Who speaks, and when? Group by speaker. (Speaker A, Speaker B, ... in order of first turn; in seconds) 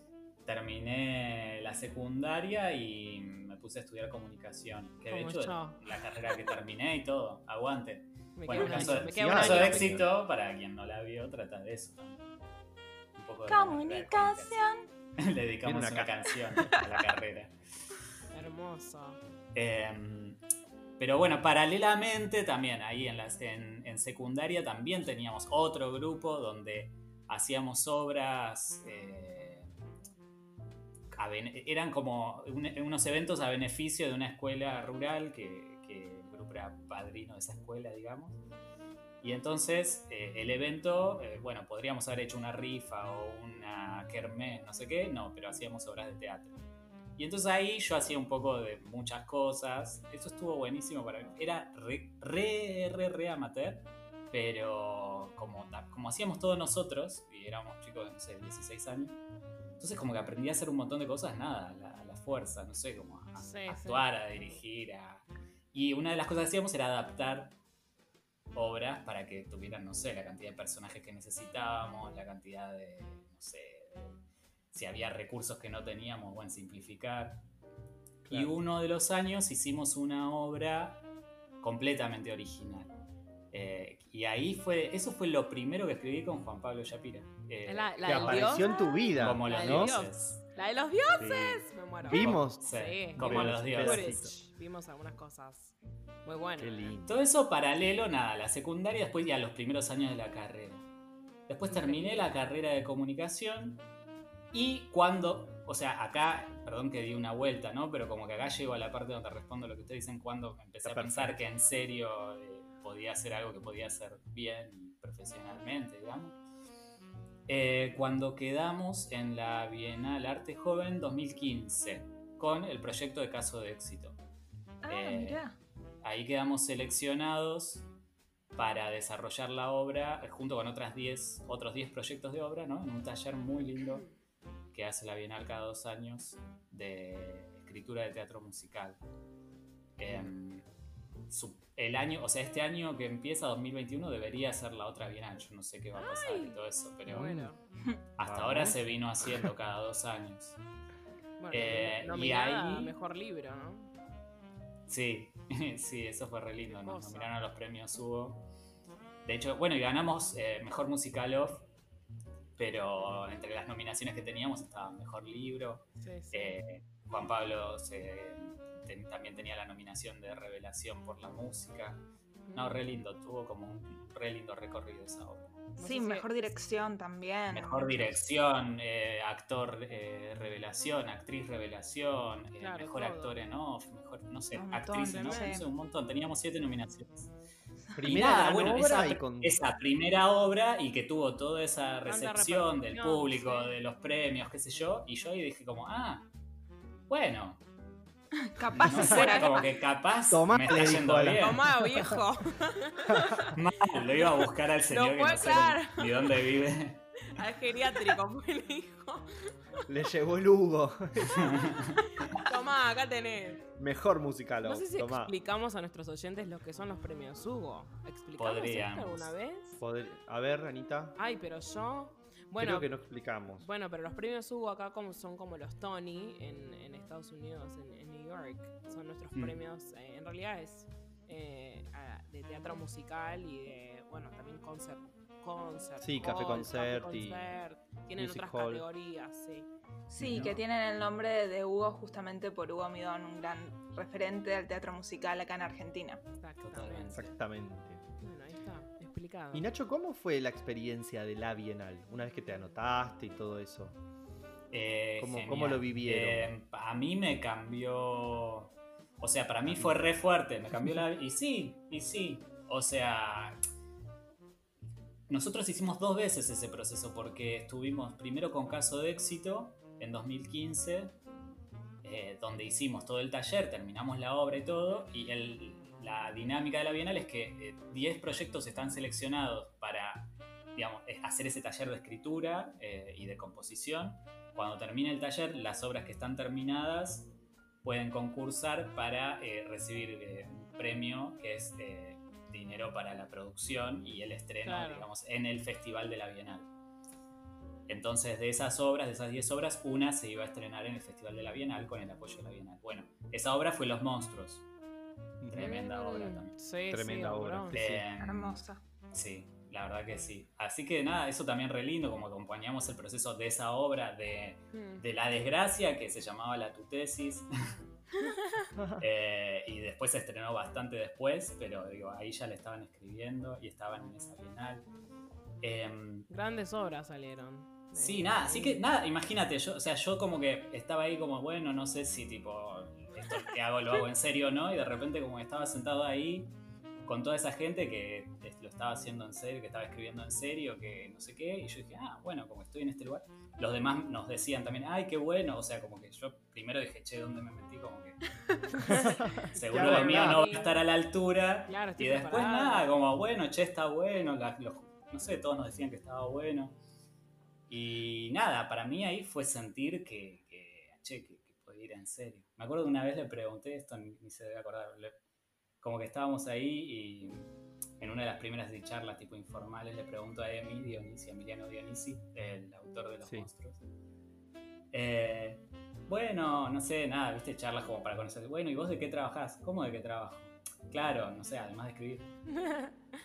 Speaker A: 0.5-12.4, 13.2-14.6, 15.2-17.6, 19.5-20.4, 21.0-29.7, 31.1-38.4, 39.2-46.6, 47.2-59.2, 59.8-67.5, 68.5-74.2, 74.7-77.4, 78.3-81.0, 81.6-83.0, 83.5-90.4, 92.1-94.2, 97.1-100.8, 101.5-103.8, 104.5-116.4, 117.5-124.2, 124.9-125.4, 126.0-127.9, 128.6-134.1, 134.7-139.0, 140.0-140.7, 141.3-147.4, 148.2-150.6, 151.5-152.9, 154.9-158.5, 159.2-161.7, 162.6-172.0, 172.6-175.7, 177.5-187.3, 188.0-196.3, 197.1-197.6, 198.7-201.8, 203.5-207.2, 211.3-212.4, 218.4-219.3, 240.1-240.6, 246.6-247.3, 254.7-263.6, 265.3-271.2, 272.0-287.3, 287.8-296.7, 297.9-304.6, 305.5-306.6, 307.7-308.6, 309.1-317.8, 319.0-324.9, 325.6-326.3, 327.9-336.5, 337.1-348.2, 348.8-356.8, 357.7-365.2, 365.8-373.8, 374.9-382.3
Speaker B: 5.1-5.8, 8.4-9.9, 18.3-19.2, 63.4-64.1, 87.7-95.7, 96.2-97.0, 101.7-102.3, 146.0-146.6, 147.1-147.6, 151.4-153.9, 156.7-157.3, 166.0-166.6, 172.5-172.8, 175.8-176.3, 182.6-183.3, 185.0-185.6, 192.1-193.8, 199.1-199.5, 201.3-203.6, 204.9-206.3, 207.3-209.8, 212.1-213.7, 214.6-219.8, 221.2-222.9, 223.6-239.7, 246.4-247.2, 248.2-249.7, 294.6-295.1, 305.6-307.8, 314.7-315.0, 318.2-318.7, 326.3-328.8, 349.8-350.8, 351.7-352.9, 382.5-382.9
Speaker C: 8.5-10.1, 15.6-16.2, 78.3-78.5, 88.1-90.0, 91.2-94.3, 96.6-97.1, 110.8-111.4, 147.1-147.5, 148.2-148.8, 188.0-189.7, 200.3-202.2, 203.1-203.4, 209.9-211.7, 213.8-215.3, 219.8-221.2, 222.6-223.7, 236.0-237.5, 238.2-238.9, 240.2-240.6, 247.1-248.0, 249.5-254.0, 255.2-256.5, 259.6-259.9, 305.4-305.7, 306.9-308.1, 318.8-319.1, 348.9-350.4, 373.2-373.5
Speaker D: 13.5-14.8, 124.8-125.5, 175.8-178.2, 184.5-185.6, 198.5-199.7, 240.2-246.2, 308.2-308.8